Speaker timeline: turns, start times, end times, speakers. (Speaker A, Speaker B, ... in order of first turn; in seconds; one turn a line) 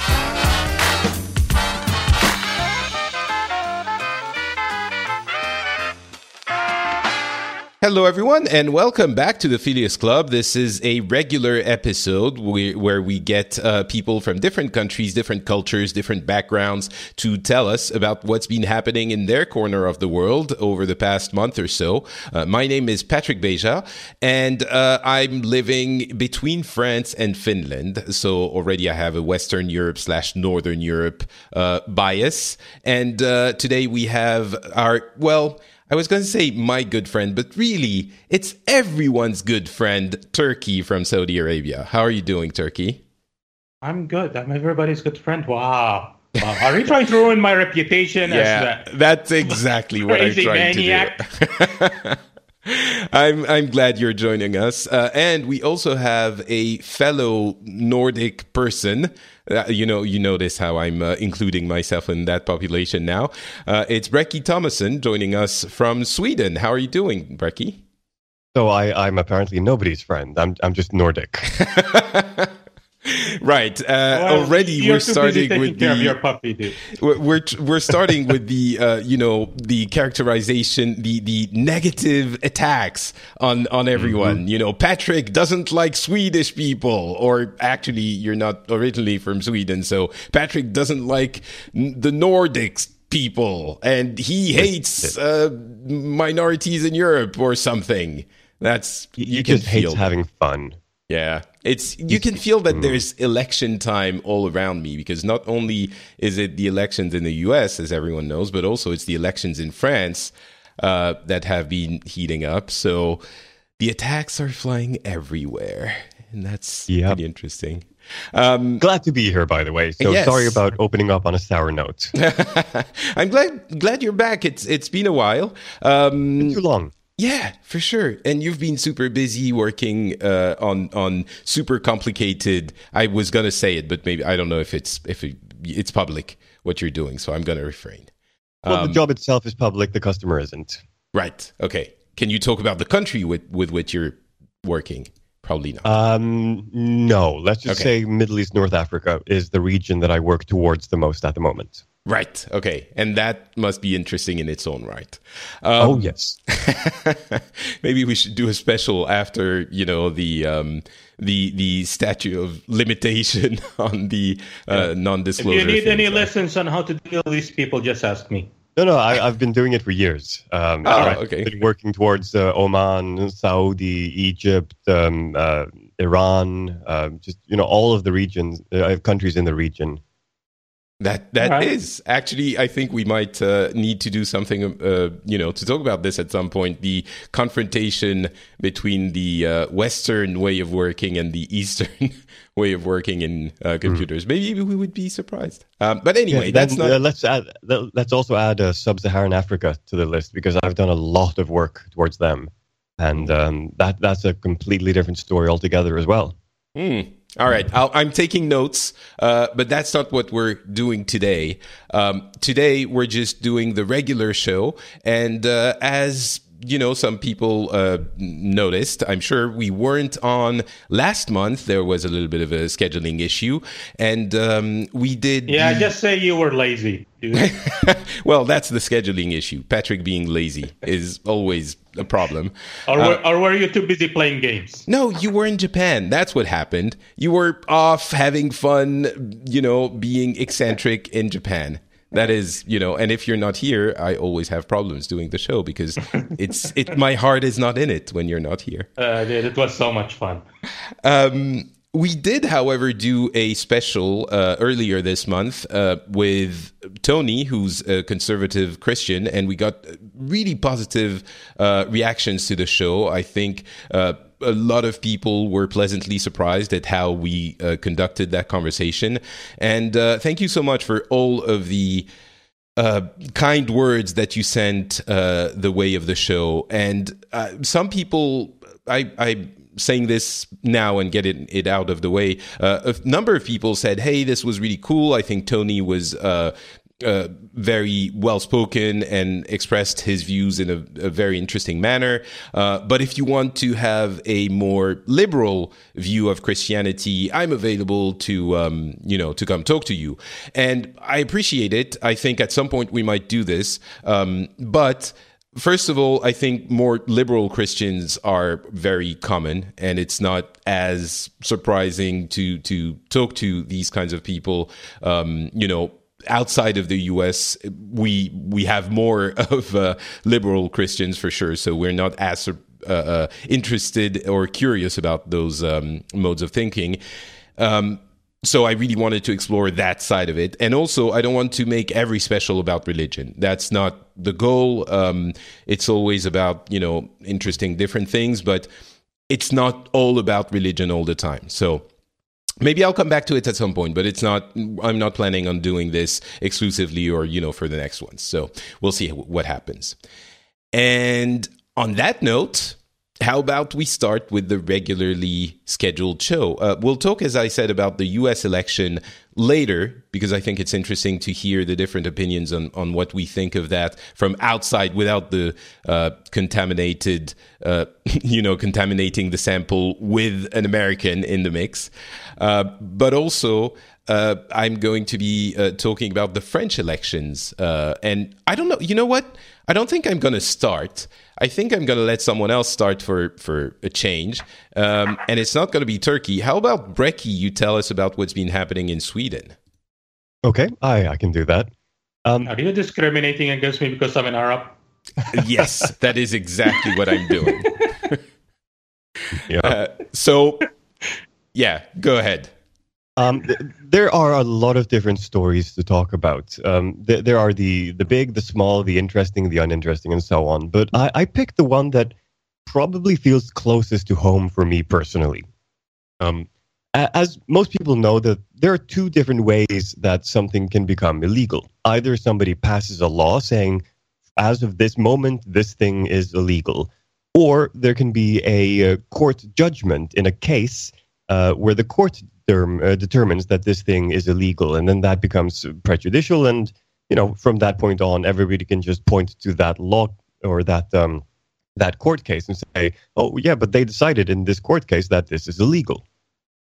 Speaker A: 7.8-43.0
Speaker B: 43.8-48.9
Speaker A: 48.3-67.8
Speaker B: 49.4-51.2
Speaker C: 68.5-71.5
Speaker A: 71.5-72.5
Speaker A: 73.0-76.2
Speaker B: 74.1-76.9
Speaker A: 76.9-100.1
Speaker C: 84.0-84.4
Speaker C: 94.6-95.1
Speaker C: 99.2-100.8
Speaker A: 101.1-113.2
Speaker C: 102.1-103.0
Speaker A: 113.8-118.8
Speaker C: 116.9-117.2
Speaker C: 118.8-122.1
Speaker A: 120.0-120.6
Speaker A: 122.1-126.6
Speaker C: 126.4-126.9
Speaker A: 127.2-138.1
Speaker A: 138.6-139.0
Speaker C: 138.7-140.8
Speaker A: 141.1-145.9
Speaker C: 145.8-151.8
Speaker A: 152.1-166.3
Speaker C: 155.8-156.4
Speaker B: 165.4-168.5
Speaker C: 168.8-180.0
Speaker A: 170.8-171.5
Speaker A: 181.0-197.0
Speaker B: 181.4-181.7
Speaker C: 196.3-206.4
Speaker A: 206.8-225.9
Speaker B: 225.5-227.7
Speaker A: 227.3-233.2
Speaker B: 232.9-234.8
Speaker A: 234.9-248.9
Speaker B: 249.0-250.4
Speaker A: 251.0-272.1
Speaker A: 272.8-327.0
Speaker A: 327.6-338.7
Speaker A: 339.3-341.9
Speaker A: 342.6-350.0
Speaker A: 350.7-389.6
Speaker C: 390.4-391.7
Speaker C: 392.2-392.5
Speaker B: 392.5-394.8
Speaker A: 395.3-398.2
Speaker C: 399.5-399.8
Speaker A: 399.6-400.7
Speaker A: 401.5-402.5
Speaker C: 403.2-412.1
Speaker C: 412.7-415.5
Speaker C: 416.2-423.8
Speaker C: 424.4-441.2
Speaker C: 441.8-446.0